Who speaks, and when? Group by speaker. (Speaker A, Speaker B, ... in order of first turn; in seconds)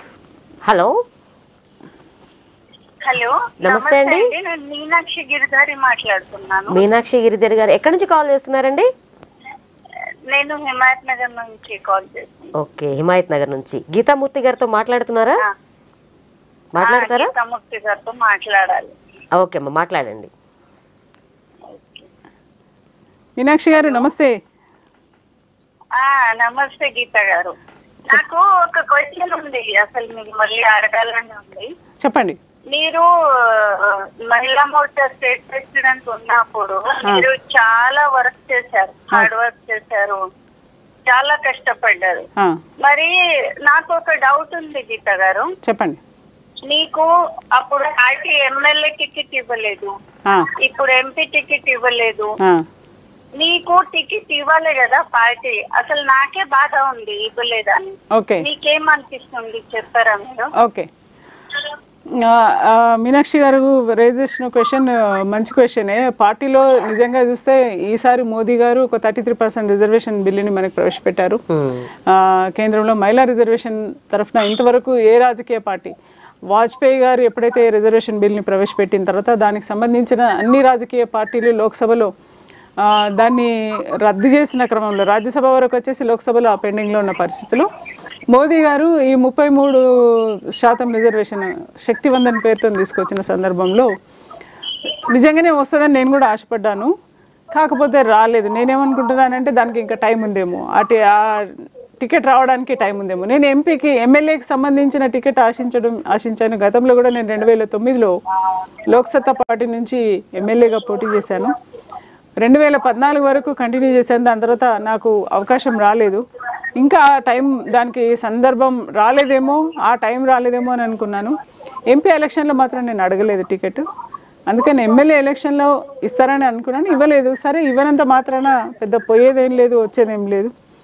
Speaker A: 0.6-0.9, 3.6-4.3, 6.7-8.9, 12.6-15.4, 16.7-17.3, 19.4-20.3, 71.5-71.9
Speaker B: 3.0-6.8, 10.3-12.5, 16.8-18.9, 21.7-22.1, 23.7-24.1, 26.0-27.5, 28.1-31.7, 32.7-40.2, 41.1-42.3, 42.8-43.1, 43.6-45.5, 46.7-49.9, 50.6-52.3, 53.4-60.5
Speaker C: 23.4-24.3, 32.0-32.4, 45.6-46.0, 58.1-58.4, 60.6-60.9, 62.2-71.4, 72.1-75.9, 76.5-82.1, 82.8-87.7, 88.3-89.8, 90.6-93.9, 95.1-96.9, 97.5-101.5, 102.0-108.1, 108.9-111.5, 112.4-116.2, 116.8-121.3, 121.9-123.8, 124.5-130.5